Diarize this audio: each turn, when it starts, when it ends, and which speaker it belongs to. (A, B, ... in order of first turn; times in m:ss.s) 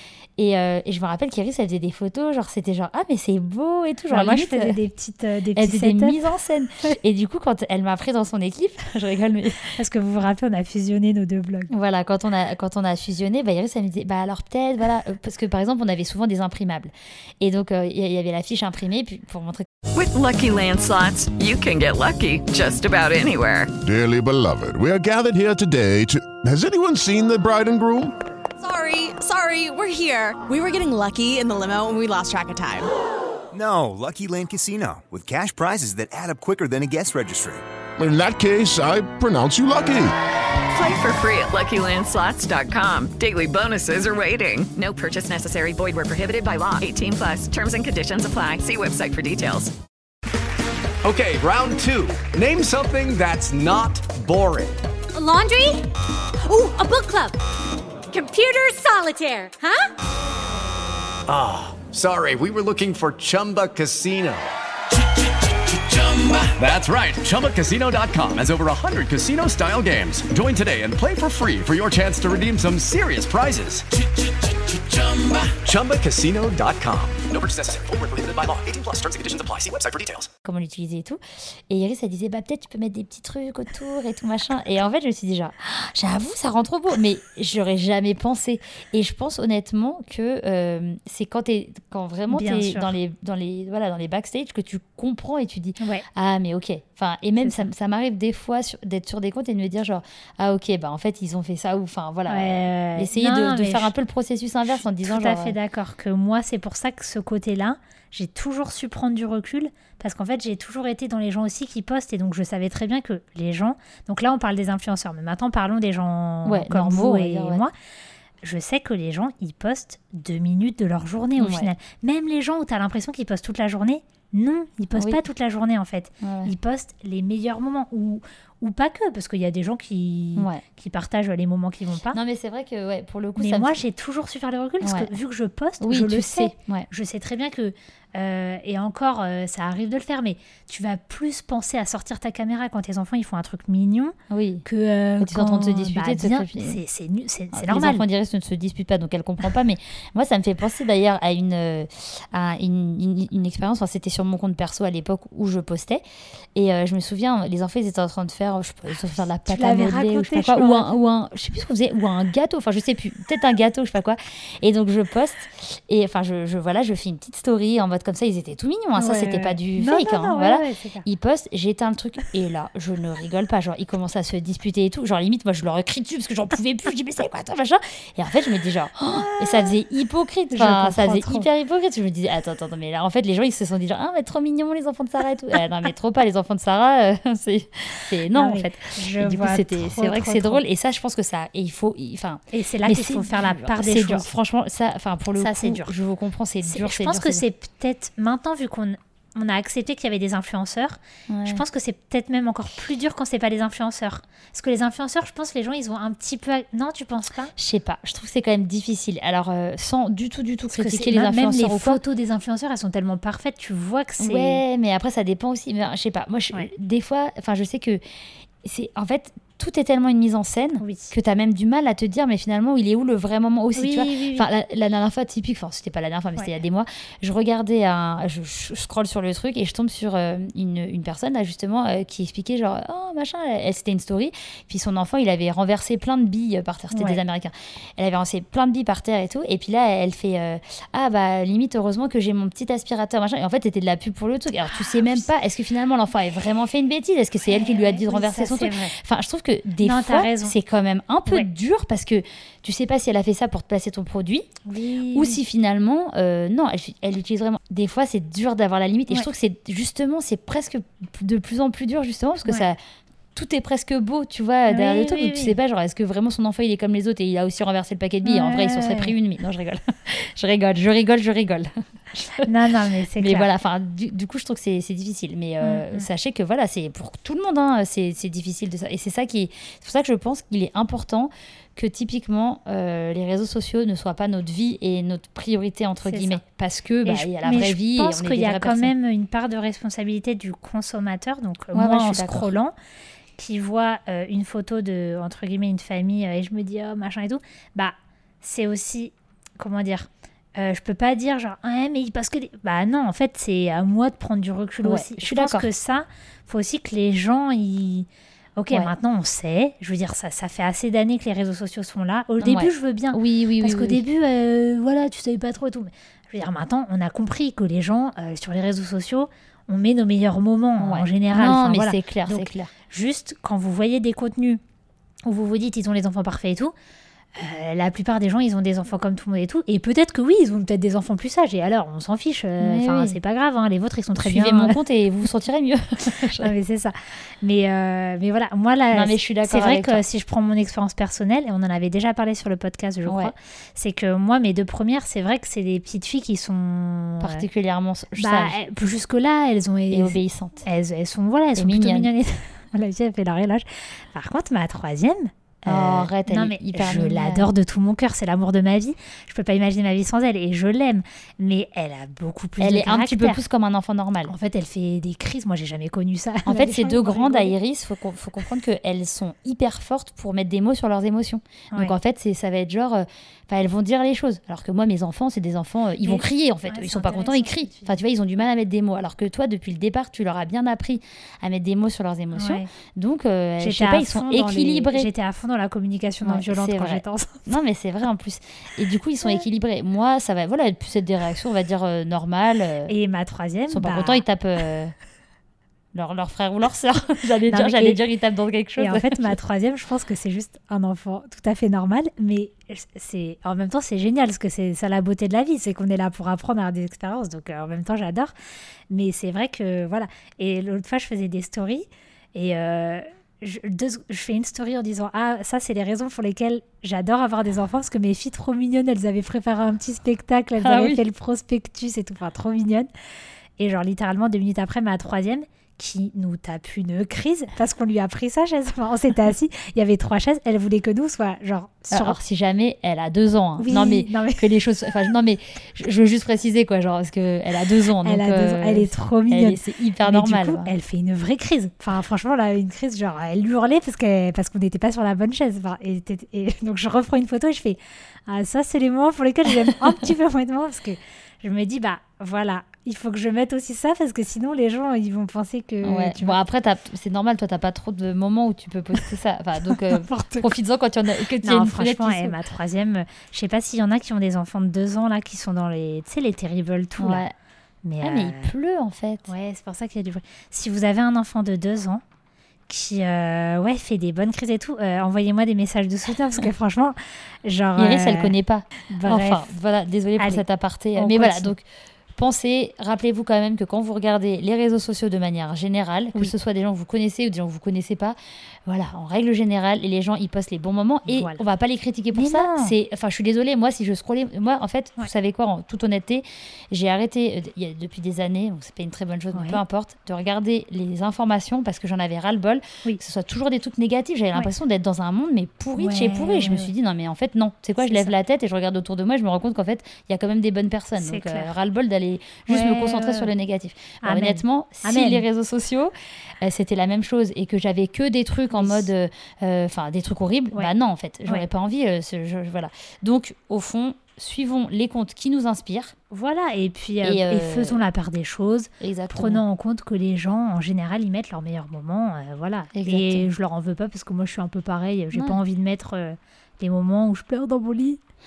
0:00.4-0:04.8 A
0:04.1-0:06.3 B
0:05.6-0:09.7 A
0:09.7-0:11.7 B
0:11.7-0:19.7 A
0:19.9-0:23.7 C
0:23.8-0:28.1 D
0:28.6-0:32.9 E
0:33.5-0:37.6 F
0:38.0-0:40.2 D
0:40.7-0:49.7 C
0:51.0-0:54.8 G
0:55.1-0:57.4 H
0:58.1-0:59.9 H
1:01.3-1:04.5 G
1:05.5-1:20.3 G
1:20.4-1:45.6 A
1:32.3-1:32.9 B
1:35.8-1:36.0 B
1:37.4-1:37.7 B
1:42.3-1:43.9 B
1:44.7-1:57.7 B
1:56.4-1:57.6 A
1:58.4-2:12.2 B
2:01.4-2:01.7 A
2:04.9-2:05.2 A
2:06.2-2:06.5 A
2:10.4-2:10.6 A
2:12.1-2:13.8 A
2:13.4-2:28.0 B
2:14.8-2:15.1 A
2:15.8-2:16.9 A
2:24.3-2:24.6 A
2:25.2-2:26.8 A
2:27.5-2:36.0 A
2:36.5-3:17.4 A
2:39.5-2:41.0 B
2:49.0-2:51.0 B
2:59.2-2:59.7 B
3:00.5-3:01.5 B
3:08.3-3:10.6 B
3:12.5-3:14.3 B
3:15.4-3:15.9 B
3:16.6-3:27.5 B
3:21.3-3:21.6 A
3:27.6-3:32.0 A
3:30.7-3:34.6 B
3:34.2-3:38.0 A
3:38.6-4:14.5 A
3:40.8-3:41.1 B
3:43.7-3:44.4 B
3:56.9-3:57.2 B
4:04.6-4:05.2 B
4:07.5-4:09.0 B
4:09.8-4:10.5 B
4:14.6-4:15.4 B
4:15.1-4:22.8 A
4:23.3-4:32.5 A
4:24.7-4:25.6 B
4:28.2-4:29.1 B
4:32.4-4:33.5 B
4:33.2-4:48.9 A
4:35.6-4:36.0 B
4:46.0-4:46.4 B
4:47.0-4:52.7 B
4:51.7-4:52.5 A
4:53.4-5:24.6 B
5:04.8-5:05.7 A
5:12.4-5:14.0 A
5:20.8-5:22.7 A
5:25.2-5:26.7 B
5:27.4-5:34.8 B
5:32.6-5:33.2 A
5:34.2-5:36.5 A
5:36.4-5:47.4 B
5:38.9-5:40.0 A
5:43.0-5:43.3 A
5:47.2-5:48.6 A
5:48.2-6:03.4 B
5:49.9-5:50.6 A
5:51.6-5:52.1 A
5:55.6-5:57.5 A
6:02.6-6:04.3 A
6:04.3-6:07.5 B
6:06.4-6:25.1 A
6:16.0-6:17.9 B
6:22.4-6:22.7 B
6:23.6-6:27.5 B
6:26.2-6:32.9 A
6:32.9-6:34.2 B
6:33.7-6:34.9 A
6:35.9-6:39.3 A
6:37.5-6:38.0 B
6:38.8-6:48.3 B
6:48.9-7:02.9 B
7:00.6-7:01.0 A
7:03.6-7:12.2 B
7:11.9-7:20.7 A
7:13.6-7:14.6 B
7:18.0-7:36.4 B
7:35.8-7:42.4 A
7:39.7-7:40.5 B
7:41.4-7:47.2 B
7:47.0-7:47.3 A
7:47.8-7:48.5 B
7:48.0-7:49.3 A
7:49.3-7:52.0 B
7:52.7-7:58.3 B
7:57.8-8:01.6 A
7:58.9-7:59.5 B
8:00.2-8:00.4 B
8:00.9-8:01.5 B
8:02.1-8:45.9 A
8:11.1-8:11.4 B
8:12.1-8:12.7 B
8:19.3-8:19.6 B
8:25.8-8:26.7 B
8:27.8-8:28.1 B
8:31.0-8:31.5 B
8:32.5-8:33.3 B
8:34.0-8:35.2 B
8:38.5-8:38.9 B
8:46.1-8:58.0 B
8:47.0-8:47.8 A
8:48.8-8:49.4 A
8:52.7-8:53.3 A
8:55.1-8:55.4 A